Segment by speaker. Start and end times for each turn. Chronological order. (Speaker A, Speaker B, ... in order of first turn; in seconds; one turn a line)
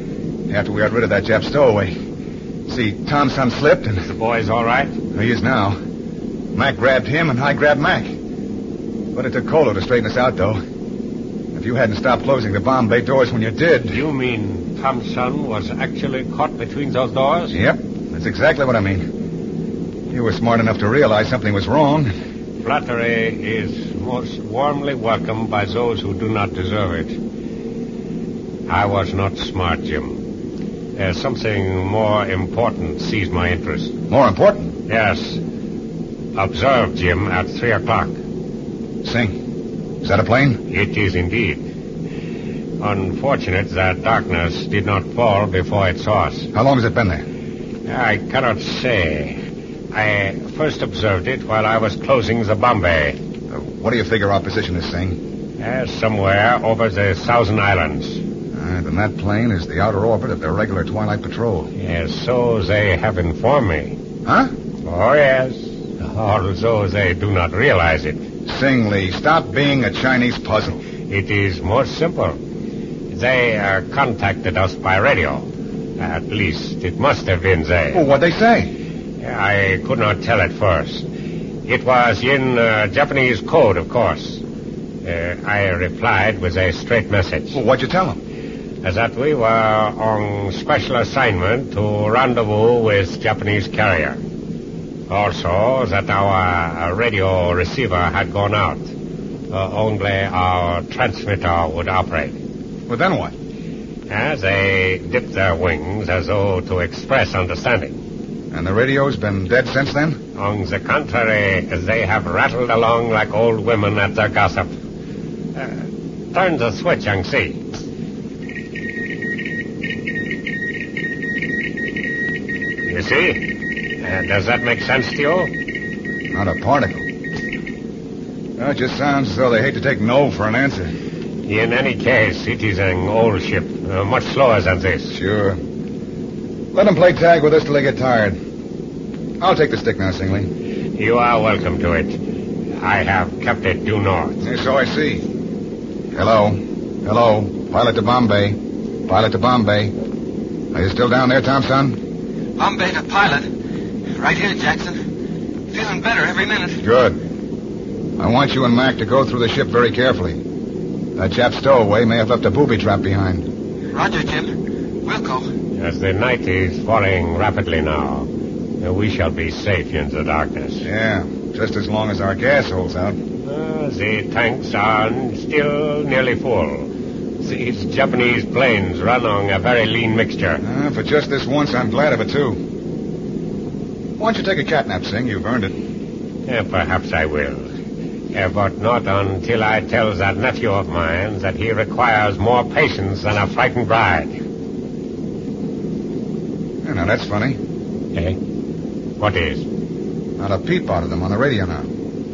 Speaker A: 0.5-1.9
Speaker A: 2.7-4.1
Speaker B: 4.0-4.9
Speaker A: 5.1-5.8
Speaker A: 6.5-8.1
Speaker A: 9.1-10.6
Speaker A: 11.5-14.0
Speaker B: 13.9-17.6
Speaker A: 17.5-19.0
Speaker A: 20.1-22.1
Speaker B: 22.6-27.2
Speaker B: 28.7-30.2
Speaker B: 30.9-33.9
Speaker A: 34.1-34.7
Speaker B: 34.9-35.4
Speaker B: 36.3-38.1
Speaker A: 39.0-39.4
Speaker A: 40.0-40.6
Speaker B: 40.7-41.6
Speaker B: 42.8-46.5
Speaker A: 46.5-47.2
Speaker B: 47.9-49.4
Speaker B: 49.9-53.2
Speaker A: 53.5-55.2
Speaker B: 55.6-58.2
Speaker A: 58.5-61.7
Speaker B: 61.8-63.9
Speaker A: 64.2-64.5
Speaker B: 64.8-68.2
Speaker A: 68.5-70.8
Speaker B: 71.0-72.4
Speaker B: 73.1-78.0
Speaker A: 77.9-78.7
Speaker B: 79.2-81.0
Speaker B: 81.7-84.4
Speaker B: 85.0-87.6
Speaker A: 87.5-88.2
Speaker B: 88.8-94.2
Speaker B: 95.1-98.9
Speaker B: 99.5-102.4
Speaker A: 102.9-103.3
Speaker B: 104.1-108.0
Speaker A: 108.5-110.2
Speaker B: 110.3-114.7
Speaker B: 115.5-117.6
Speaker B: 122.8-123.5
Speaker B: 124.0-125.5
Speaker A: 126.3-127.0
Speaker A: 128.6-130.9
Speaker B: 131.4-135.2
Speaker A: 135.1-135.6
Speaker A: 136.7-138.4
Speaker A: 139.4-140.5
Speaker B: 140.9-142.2
Speaker B: 142.8-144.4
Speaker A: 144.4-145.2
Speaker A: 146.1-149.9
Speaker A: 150.7-152.0
Speaker C: 152.6-153.5
Speaker C: 154.2-154.9
Speaker C: 155.7-156.8
Speaker A: 156.8-157.2
Speaker A: 158.2-160.4
Speaker A: 161.2-163.4
Speaker C: 163.9-164.5
Speaker C: 165.0-165.5
Speaker B: 165.7-168.3
Speaker B: 168.8-170.9
Speaker A: 170.8-173.2
Speaker B: 173.4-180.6
Speaker A: 180.6-182.6
Speaker A: 184.2-185.7
Speaker B: 186.4-187.7
Speaker B: 188.3-194.3
Speaker A: 196.8-197.6
Speaker B: 199.2-199.7
Speaker A: 200.4-201.9